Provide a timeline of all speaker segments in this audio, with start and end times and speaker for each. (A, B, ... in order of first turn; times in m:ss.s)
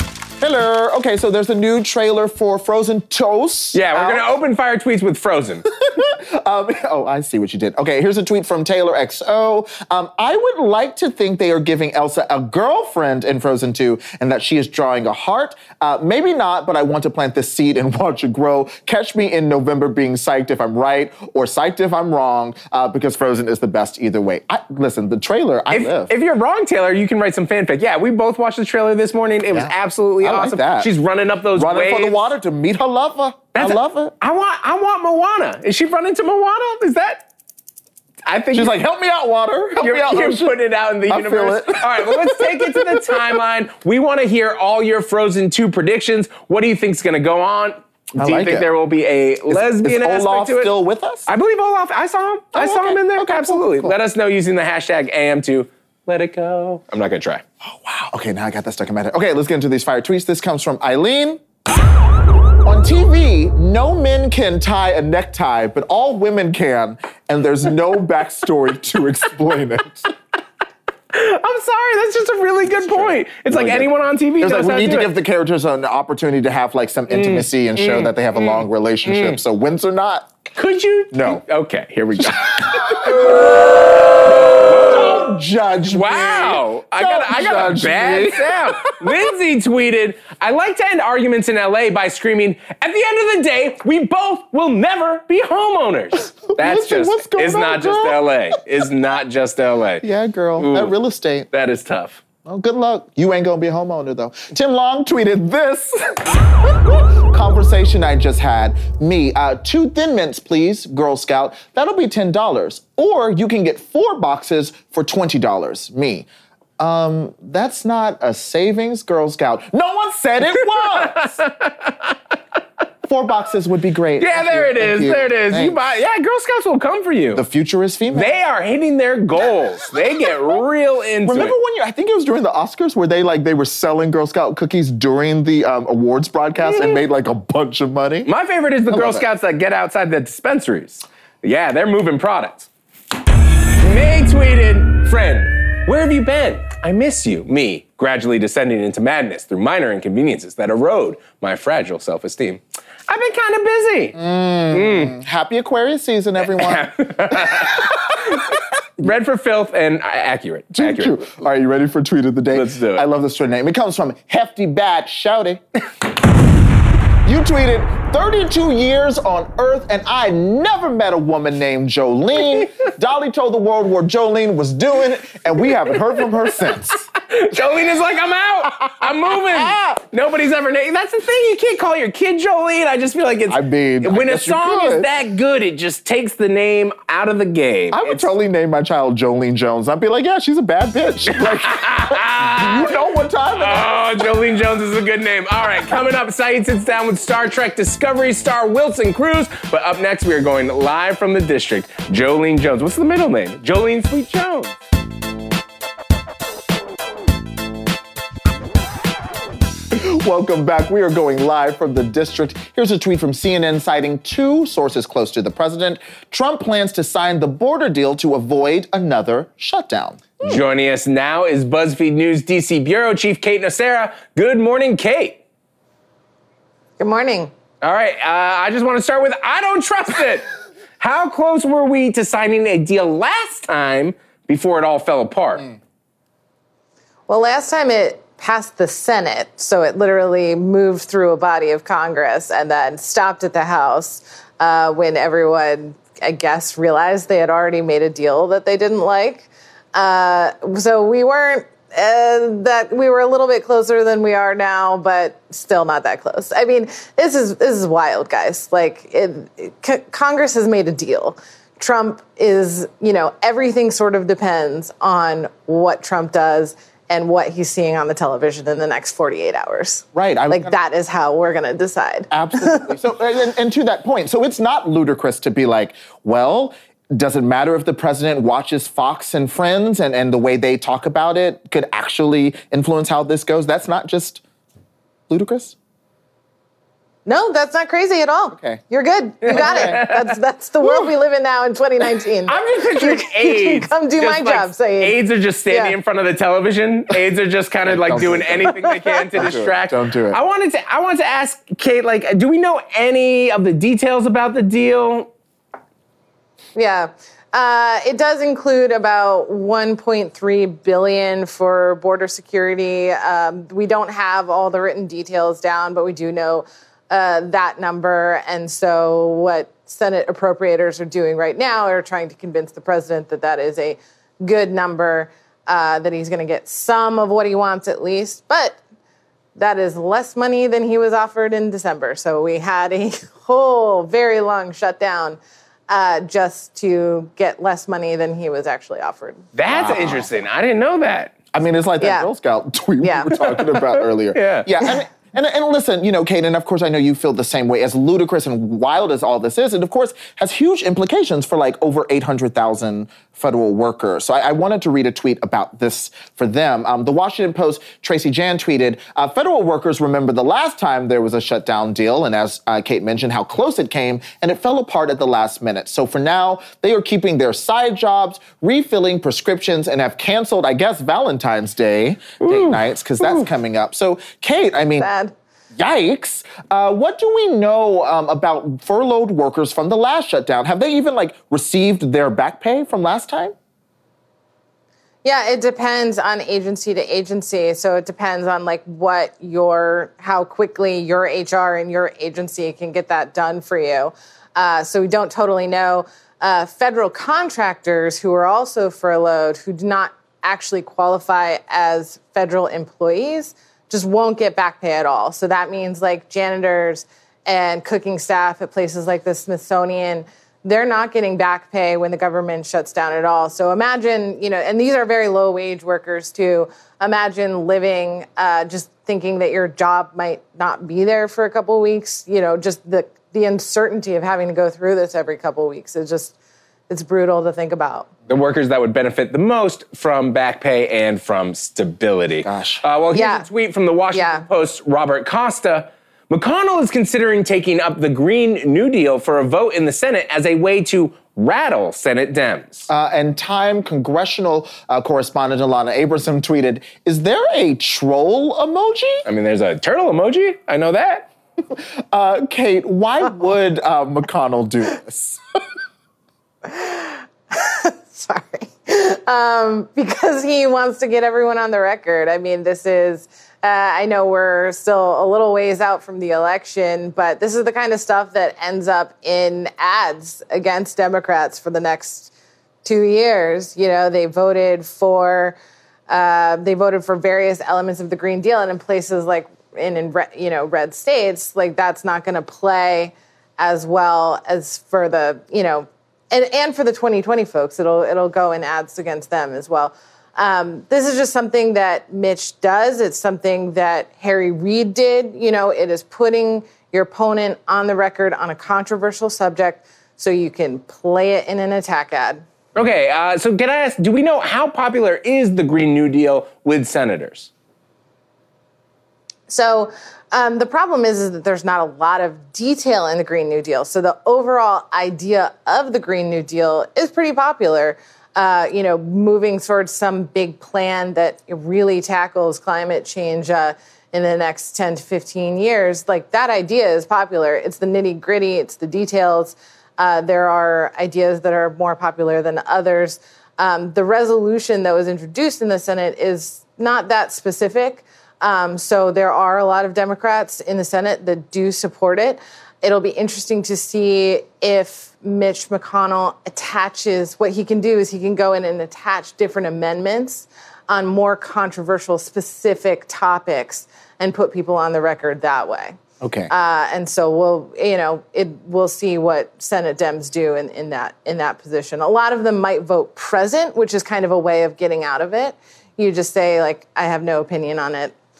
0:00.4-0:04.3 A
0:03.7-0:05.7 B
0:05.8-0:26.1 A
0:25.7-0:32.3 B
0:29.5-0:30.9 A
0:31.5-0:34.1 A
0:33.5-0:37.2 B
0:38.2-0:38.8 B
0:38.5-0:40.5 A
0:39.8-0:50.7 B
0:41.1-0:43.4 A
0:48.2-0:48.7 A
0:49.5-0:51.3 A
0:51.3-0:57.4 B
0:52.5-0:54.0 A
0:57.6-1:01.4 A
1:02.6-1:10.1 A
1:11.1-1:15.1 B
1:12.6-1:20.4 A
1:17.1-1:19.4 B
1:20.6-1:40.0 B
1:21.1-1:21.4 A
1:22.2-1:29.3 A
1:36.4-1:38.6 A
1:40.0-1:41.5 A
1:40.6-1:40.9 B
1:41.5-1:42.2 B
1:42.4-1:56.3 A
1:56.8-2:01.3 A
2:01.0-2:01.9 B
2:03.0-2:05.8 A
2:04.2-2:07.4 B
2:07.3-2:08.3 A
2:08.1-2:11.5 B
2:11.2-2:18.3 A
2:16.6-2:17.0 B
2:18.2-2:22.7 B
2:18.9-2:19.2 A
2:23.8-2:34.2 B
2:34.1-2:38.5 A
2:34.7-2:35.2 B
2:36.5-2:41.3 B
2:40.7-2:45.6 A
2:42.5-2:43.0 B
2:47.2-2:57.6 A
2:57.2-3:08.3 B
2:59.0-3:00.0 A
3:03.5-3:05.1 A
3:07.9-3:14.3 A
3:11.3-3:13.0 B
3:13.6-3:24.7 B
3:29.9-3:40.6 A
3:40.4-3:45.4 B
3:47.0-3:47.5 C
3:47.8-3:50.5 B
3:51.0-3:55.7 B
3:57.3-4:32.9 C
4:30.1-4:30.7 A
4:32.3-4:44.4 A
4:45.3-4:45.7 A
4:47.2-4:55.2 C
4:48.5-4:48.8 A
4:49.4-4:50.3 B
4:49.5-4:50.0 A
4:52.5-5:05.3 B
4:55.7-4:55.9 C
4:57.8-5:00.4 A
4:58.7-4:59.2 C
5:06.8-5:28.8 C
5:29.6-5:35.4 C
5:35.9-5:39.4 C
5:39.5-5:41.4 B
5:39.7-5:40.2 A
5:41.5-6:15.1 A
5:42.0-5:42.3 C
5:43.0-5:43.4 C
5:44.3-5:44.7 B
6:12.4-6:13.5 B
6:15.0-6:15.3 C
6:15.8-6:23.5 A
6:25.2-7:06.3 C
7:06.9-7:08.1 C
7:08.3-7:22.9 B
7:12.4-7:12.8 A
7:13.1-7:13.4 C
7:14.1-7:14.4 C
7:22.9-7:29.2 A
7:29.2-7:31.3 B
7:31.7-7:35.4 A
7:36.6-7:52.3 C
7:52.8-7:55.6 C
7:56.1-8:22.4 C
8:22.8-8:27.5 B
8:29.5-9:16.0 C
9:16.2-9:16.5 A
9:16.5-9:28.1 C